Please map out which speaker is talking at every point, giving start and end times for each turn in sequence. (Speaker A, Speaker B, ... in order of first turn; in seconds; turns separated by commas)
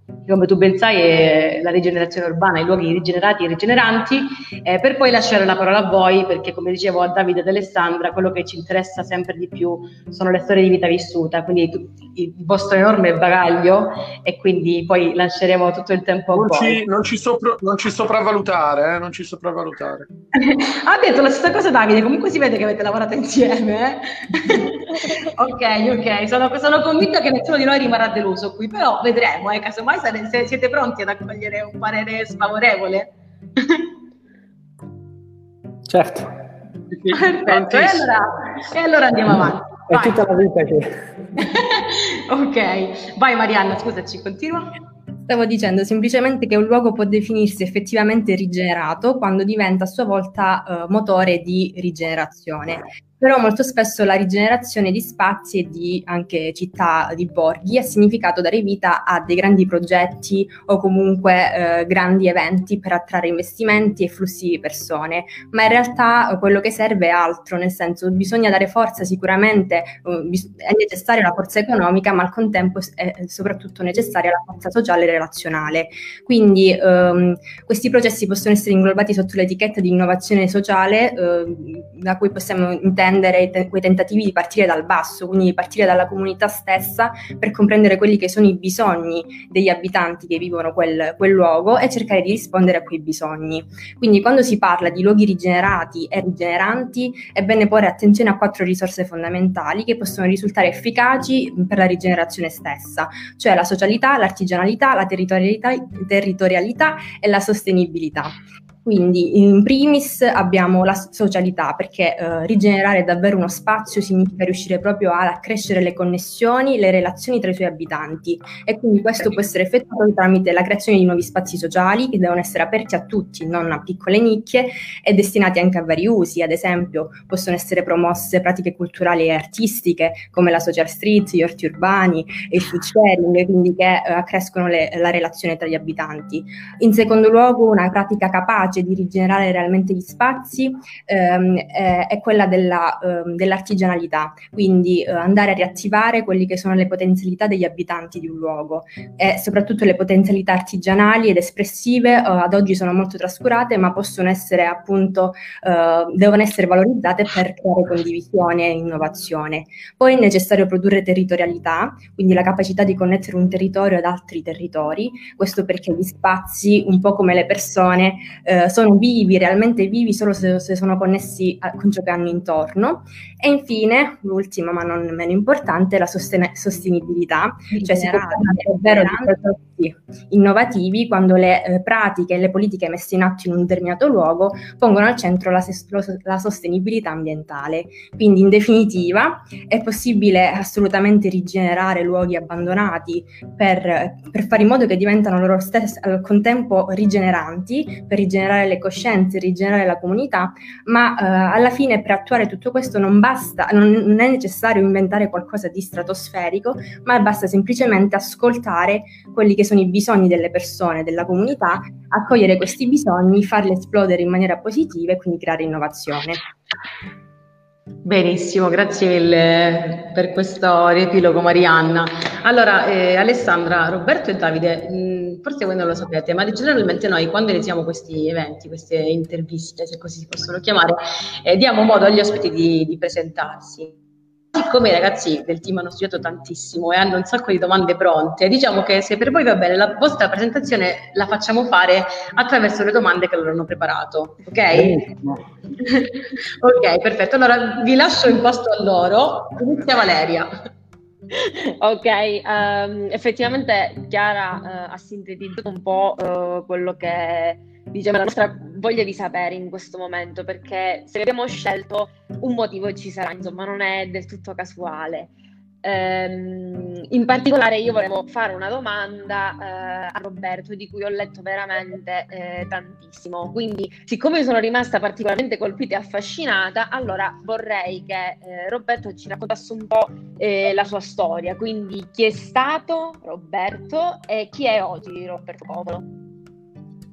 Speaker A: 0.3-16.8, Speaker B: 16.3-20.1, Speaker A: 20.4-33.9, Speaker C: 35.9-36.3, Speaker A: 37.1-40.2, Speaker C: 39.9-41.0, Speaker A: 41.4-44.7, Speaker D: 45.3-216.4, Speaker A: 177.7-179.3, Speaker A: 218.0-234.0, Speaker A: 234.5-245.1, Speaker C: 244.7-245.3, Speaker A: 245.8-250.5, Speaker E: 251.3-265.3, Speaker E: 265.8-286.1